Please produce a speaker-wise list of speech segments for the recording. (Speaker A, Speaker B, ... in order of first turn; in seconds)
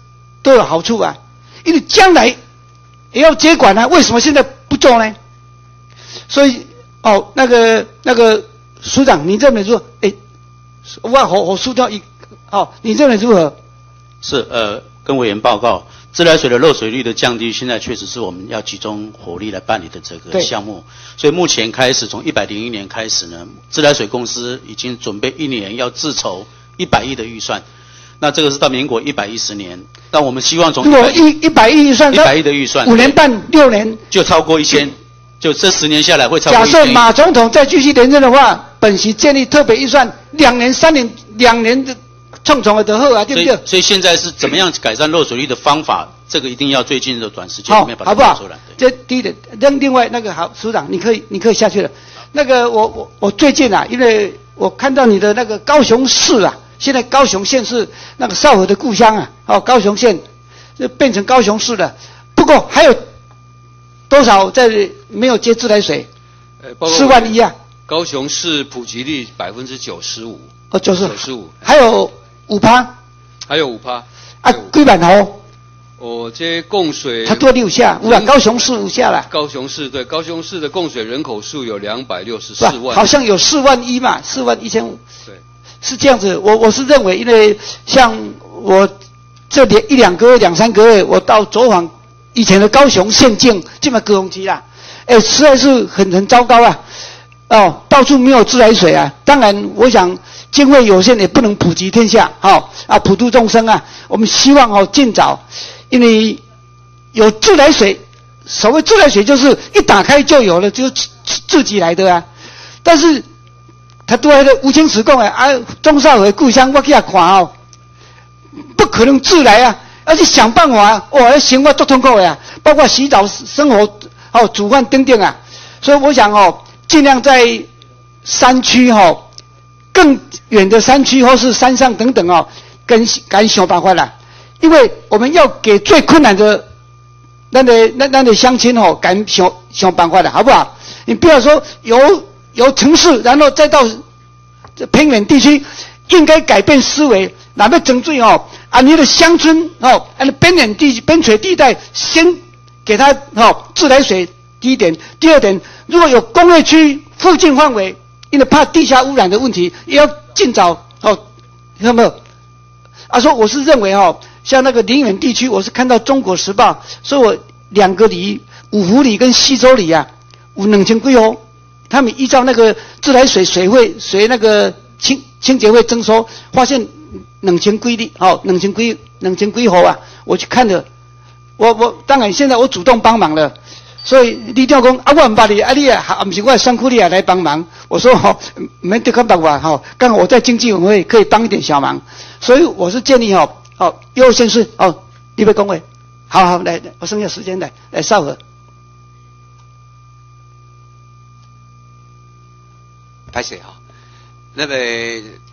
Speaker A: 0.4-2.4, 3.1-5.1, 6.3-10.1, 10.9-13.5, 30.8-34.0, 36.5-43.6, 47.7-60.2, 60.8-63.0, 64.1-66.1, 66.8-67.5, 70.7-72.9, 74.4-75.4, 77.2-79.3, 82.6-85.0, 85.8-88.9, 89.5-96.8, 97.5-106.4, 107.1-112.2, 112.8-113.2, 114.1-117.5, 118.7-127.7, 128.2-129.3, 129.9-136.6, 137.5-144.0, 144.8-161.2, 161.8-162.2, 163.1-171.4, 171.9-180.8, 181.6-183.5, 184.0-198.4
Speaker B: 14.2-27.6, 28.2-31.2, 32.1-33.2, 34.1-37.0, 43.3-48.7
Speaker C: 66.6-67.3, 67.9-70.5, 71.0-71.6, 73.5-74.6, 76.0-77.5, 78.0-78.5, 79.3-83.1, 203.3-203.8, 204.5-205.3